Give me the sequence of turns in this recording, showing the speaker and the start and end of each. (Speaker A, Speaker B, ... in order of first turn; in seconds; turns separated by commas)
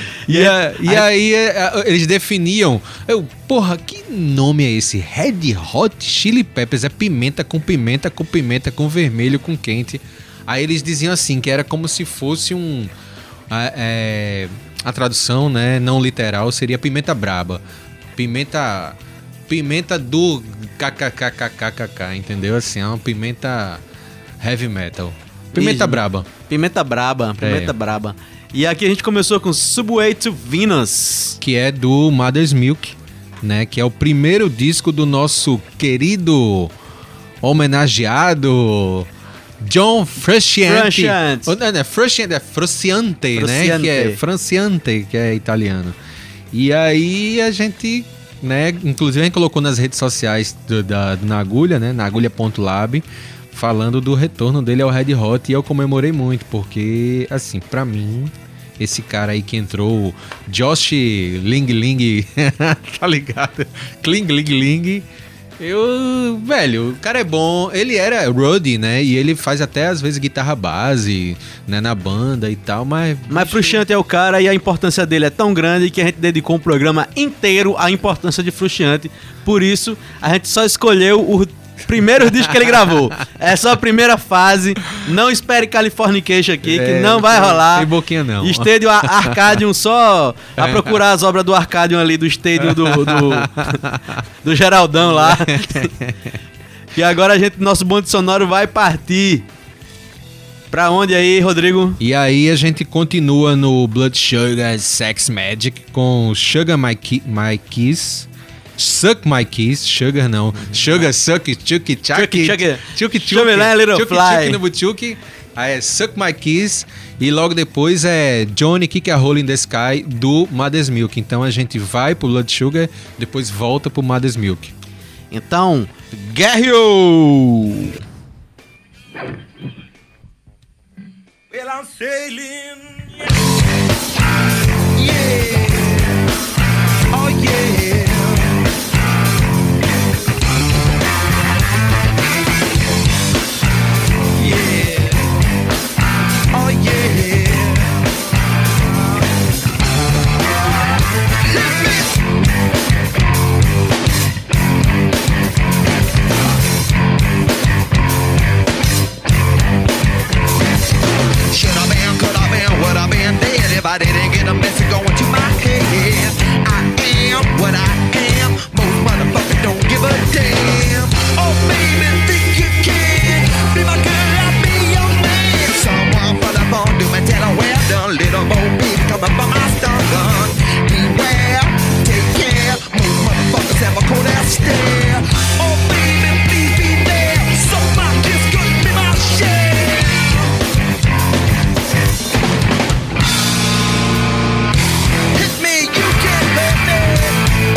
Speaker A: 0.2-1.1, Speaker B: 0.3-12.9, Speaker B: 13.5-17.6, Speaker B: 18.2-19.0, Speaker B: 19.5-23.8, Speaker B: 24.4-26.3, Speaker A: 25.6-31.4, Speaker B: 27.4-27.7, Speaker B: 31.4-36.7, Speaker B: 37.4-39.1, Speaker B: 39.6-46.0, Speaker A: 40.7-41.5, Speaker A: 43.4-44.2, Speaker B: 46.5-65.1, Speaker B: 65.6-73.8, Speaker A: 73.3-93.8, Speaker B: 82.4-82.8, Speaker B: 86.6-89.6, Speaker B: 90.6-90.9, Speaker B: 92.6-94.2, Speaker A: 94.4-95.9, Speaker B: 95.0-96.3, Speaker A: 97.0-99.5, Speaker A: 100.7-102.0, Speaker B: 102.0-124.7, Speaker A: 112.1-114.6, Speaker A: 125.3-127.9, Speaker C: 131.5-133.3, Speaker C: 134.9-136.1, Speaker C: 137.1-138.6, Speaker C: 144.4-145.2, Speaker C: 146.5-148.0, Speaker C: 151.5-152.1, Speaker C: 161.5-190.4, Speaker C: 195.3-197.4